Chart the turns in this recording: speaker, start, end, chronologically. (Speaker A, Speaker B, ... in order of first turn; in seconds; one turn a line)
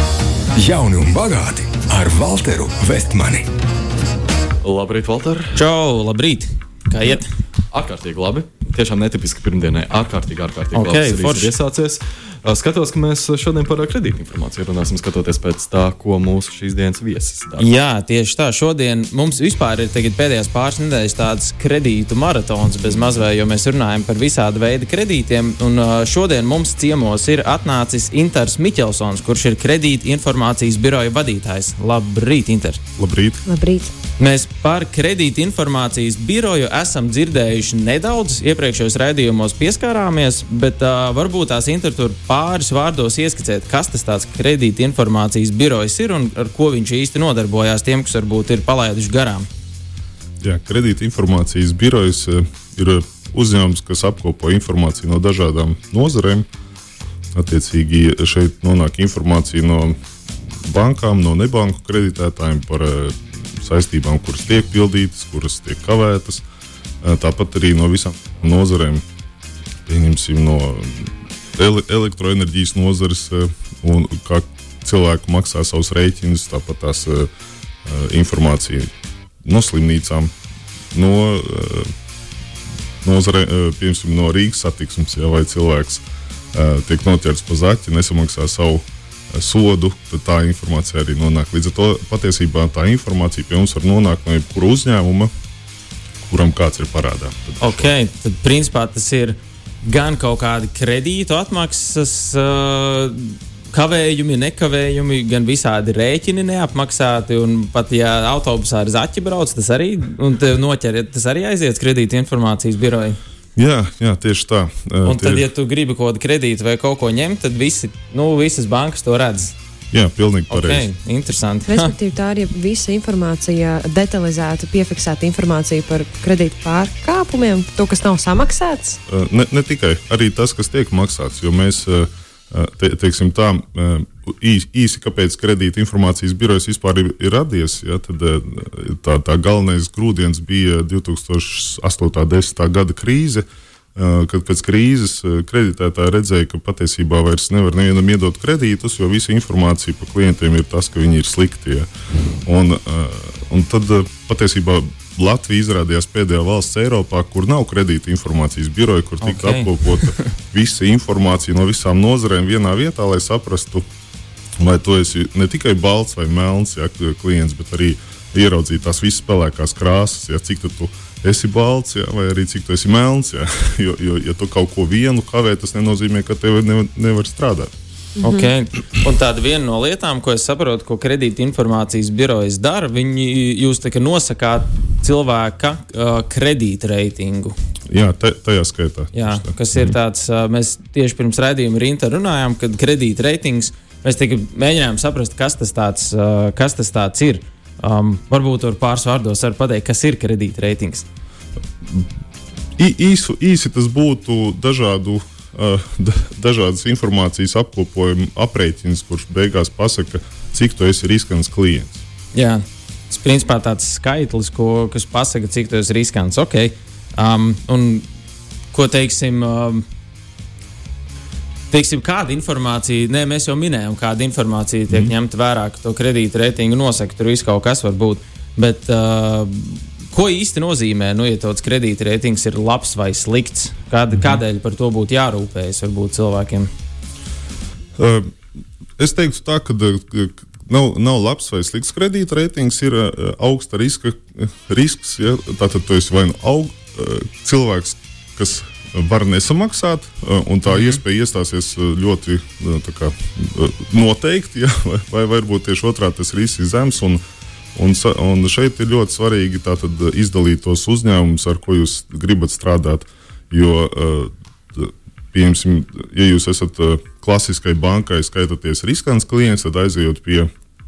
Speaker A: 0.6-3.5
Speaker B: 4.6-5.6
Speaker C: 5.5-7.3
Speaker B: 7.7-17.7
Speaker C: 10.7-11.5
Speaker C: 17.6-32.8
Speaker D: 33.0-33.4
Speaker E: 33.5-33.9
Speaker C: 34.2-49.5
Speaker D: 50.4-56.5
Speaker D: 57.3-60.0
Speaker D: 60.6-66.4
Speaker D: 67.0-69.0
Speaker D: 69.9-77.3
Speaker D: 77.8-78.9
Speaker D: 79.4-80.3
Speaker D: 80.9-81.9
Speaker D: 83.0-95.3
Speaker D: 96.2-97.9
Speaker C: 97.6-113.2
Speaker D: 113.6-115.5
Speaker C: 115.0-119.5
Speaker D: 119.9-120.9
Speaker C: 120.5-121.9
Speaker E: 121.7-129.0
Speaker D: 129.1-151.9
Speaker D: 152.4-163.8
Speaker C: 159.2-160.3
Speaker D: 164.6-177.7
Speaker E: 178.2-178.5
Speaker C: 178.2-187.6
Speaker D: 187.9-189.9
Speaker C: 189.1-201.1
Speaker D: 202.8-212.0
Speaker C: 212.3-218.1
Speaker C: 218.7-219.8
Speaker C: 221.7-236.7
Speaker D: 234.1-234.4
Speaker D: 238.0-238.3
Speaker D: 239.0-257.2
Speaker C: 250.7-251.0
Speaker D: 257.8-270.5